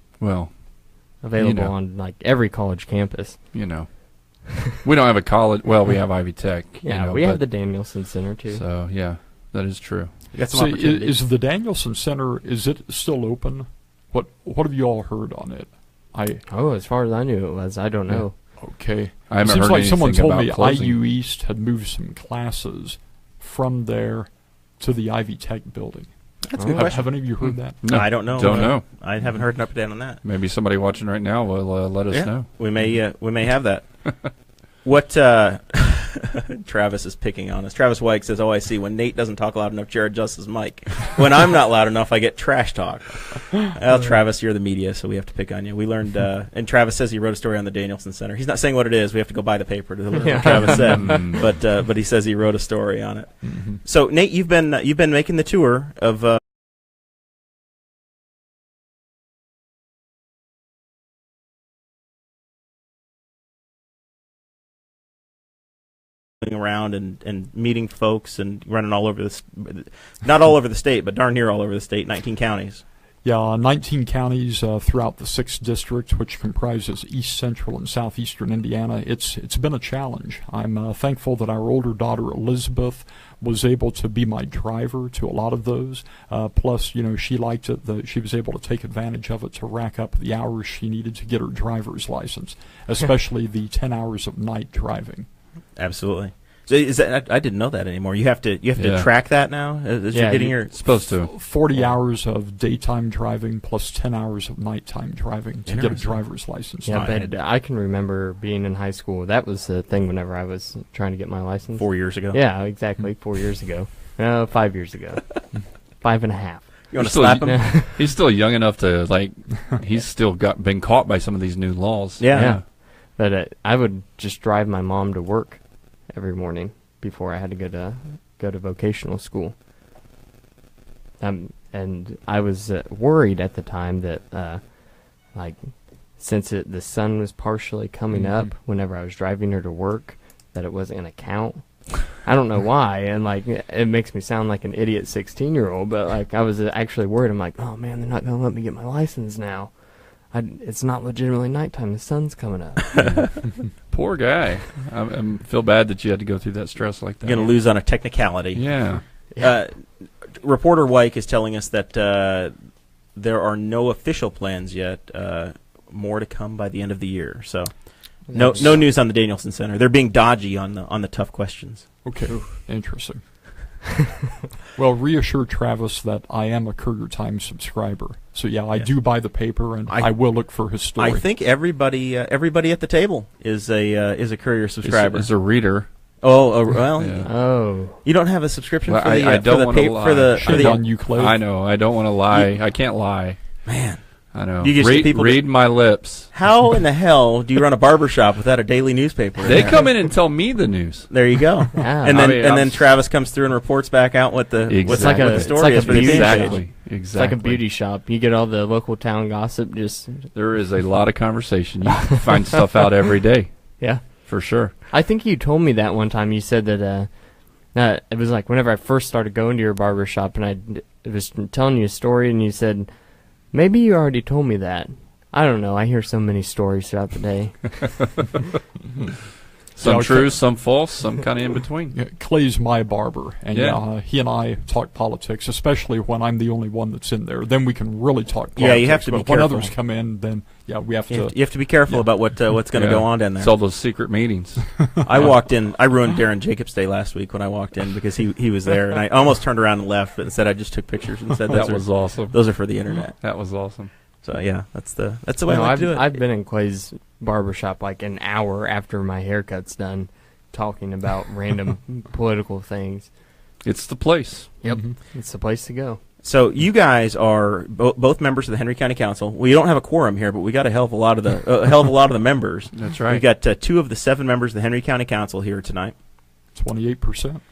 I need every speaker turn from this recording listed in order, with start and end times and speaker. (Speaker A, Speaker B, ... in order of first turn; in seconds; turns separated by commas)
Speaker A: 0.2-0.8, Speaker B: 1.2-3.5, Speaker A: 1.4-1.7, Speaker A: 3.5-7.9, Speaker B: 6.8-8.6, Speaker A: 8.5-10.1, Speaker C: 10.3-11.1, Speaker D: 10.5-16.4, Speaker B: 16.5-18.4, Speaker D: 18.1-28.7, Speaker A: 19.3-21.0, Speaker C: 26.4-27.0, Speaker B: 26.6-27.0, Speaker A: 27.8-28.8, Speaker C: 27.9-30.2, Speaker A: 30.2-32.5, Speaker C: 32.1-56.4, Speaker B: 50.1-51.4, Speaker D: 53.4-53.8, Speaker C: 66.4-72.8, Speaker D: 73.2-95.3, Speaker C: 95.8-100.7, Speaker A: 98.8-99.1, Speaker B: 100.1-100.6, Speaker A: 100.7-101.3, Speaker D: 101.2-107.1, Speaker C: 105.7-106.1, Speaker B: 106.8-118.0, Speaker C: 106.9-107.3, Speaker C: 111.8-112.4, Speaker C: 116.9-117.6, Speaker A: 117.0-122.6, Speaker C: 122.2-122.6, Speaker B: 122.3-129.5, Speaker B: 131.2-153.1, Speaker A: 153.9-157.5, Speaker C: 157.2-162.5, Speaker A: 158.5-159.0, Speaker B: 159.3-159.6, Speaker C: 163.1-171.9, Speaker B: 168.3-168.9, Speaker D: 172.0-173.5, Speaker D: 174.7-181.2, Speaker C: 179.9-180.3, Speaker C: 181.0-185.3, Speaker A: 184.8-185.9, Speaker C: 186.2-187.5, Speaker A: 187.0-187.3, Speaker B: 187.2-188.0, Speaker C: 188.0-190.8, Speaker A: 188.8-193.4, Speaker D: 190.3-191.4, Speaker C: 193.6-194.0, Speaker A: 194.3-196.3, Speaker C: 194.6-195.5, Speaker C: 196.3-199.9, Speaker A: 199.4-201.1, Speaker C: 201.1-206.6, Speaker B: 201.7-202.2, Speaker A: 202.1-202.8, Speaker A: 204.7-207.6, Speaker B: 204.8-210.3, Speaker A: 210.3-214.7, Speaker B: 213.8-222.9, Speaker B: 223.4-228.1, Speaker A: 229.8-231.9, Speaker D: 229.8-230.4, Speaker D: 231.9-242.1, Speaker A: 233.5-233.8, Speaker C: 238.6-239.7, Speaker C: 241.1-243.5, Speaker A: 242.7-245.0, Speaker C: 245.0-253.2, Speaker A: 251.5-253.9, Speaker C: 254.2-256.2, Speaker B: 255.4-263.1, Speaker A: 263.6-264.5, Speaker B: 264.6-266.0, Speaker D: 264.6-265.0, Speaker C: 266.2-275.9, Speaker A: 272.7-273.2, Speaker D: 276.5-277.4